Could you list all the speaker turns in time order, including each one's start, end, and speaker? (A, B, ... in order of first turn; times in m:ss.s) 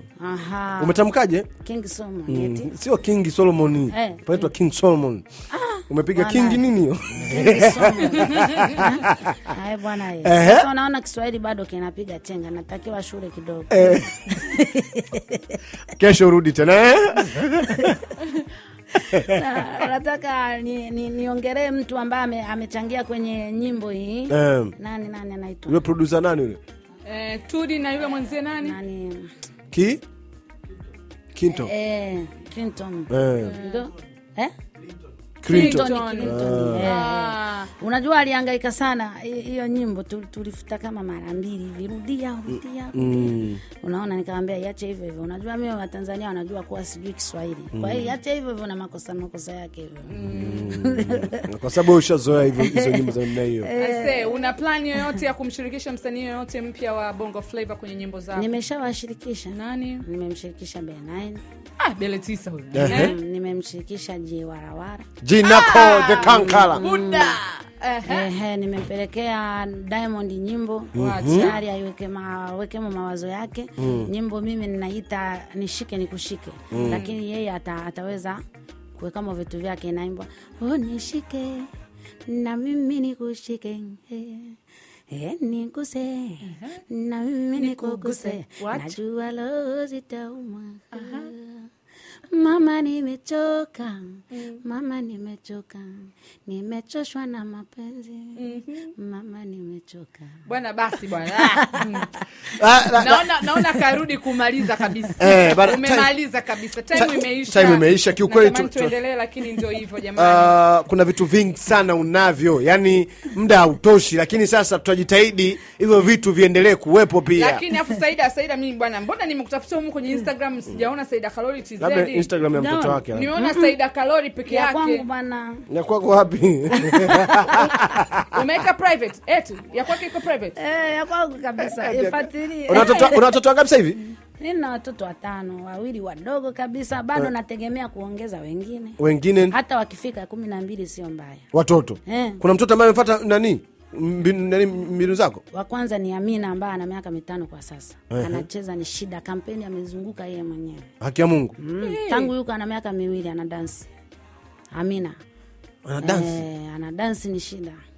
0:00.2-0:01.1 A
0:00.8-0:01.5 B
0:01.6-0:02.7 A
0:02.3-0:05.2 B
0:03.9-0:04.5 A
0:05.5-0:15.6 A
0:05.9-0:09.3 B
0:10.2-0:10.7 B
0:13.7-0:14.2 B
0:16.0-0:18.0 B
0:17.8-0:18.4 A
0:18.9-0:25.8 A
0:19.1-0:19.4 B
0:24.3-0:24.7 B
0:25.7-0:26.6 B
0:27.0-0:28.8 C
0:28.6-0:29.3 A
0:29.7-0:30.0 B
0:31.3-0:31.7 B
0:31.5-0:34.5 A
0:33.1-0:33.6 B
0:33.4-0:33.9 C
0:35.4-0:37.0 B
0:35.4-0:37.7 C
0:35.4-0:51.4 A
0:42.5-0:43.6 B
0:47.7-0:48.1 B
0:50.1-0:50.8 C
0:50.3-0:53.7 B
0:52.5-0:55.1 A
0:53.7-0:58.5 C
0:58.3-1:01.4 A
0:59.5-1:00.0 C
1:01.8-1:03.2 C
1:02.7-1:03.1 B
1:02.8-1:05.1 A
1:05.2-1:06.8 B
1:05.4-1:08.3 C
1:06.1-1:07.4 A
1:08.0-1:18.4 A
1:10.9-1:11.5 B
1:10.9-1:11.6 C
1:13.8-1:14.1 B
1:16.7-1:17.0 B
1:16.7-1:17.1 C
1:18.9-1:21.7 A
1:22.3-1:24.6 A
1:25.1-1:31.7 A
1:26.5-1:26.8 C
1:27.6-1:29.0 C
1:30.9-1:31.3 C
1:32.3-1:40.4 A
1:34.3-1:34.6 C
1:38.4-1:38.9 C
1:40.4-1:42.1 C
1:41.4-1:41.9 A
1:42.6-1:43.3 B
1:42.9-1:50.5 C
1:45.2-1:46.1 B
1:46.9-1:48.9 B
1:50.2-1:57.6 B
1:57.4-2:02.3 C
2:01.8-2:03.3 B
2:02.5-2:03.8 A
2:03.1-2:05.0 C
2:04.5-2:05.6 A
2:05.7-2:08.5 B
2:06.8-2:07.8 A
2:08.3-2:10.6 C
2:10.6-2:13.3 A
2:11.6-2:14.0 B
2:12.8-2:13.1 C
2:14.4-2:19.0 A
2:19.0-2:19.6 B
2:19.5-2:21.4 A
2:21.5-2:25.4 B
2:22.0-2:22.4 A
2:25.5-2:30.9 A
2:28.1-2:28.4 B
2:31.0-2:31.6 B
2:31.6-2:33.9 A
2:31.8-2:32.3 C
2:34.7-2:35.2 A
2:35.8-2:36.4 B
2:36.0-2:37.8 A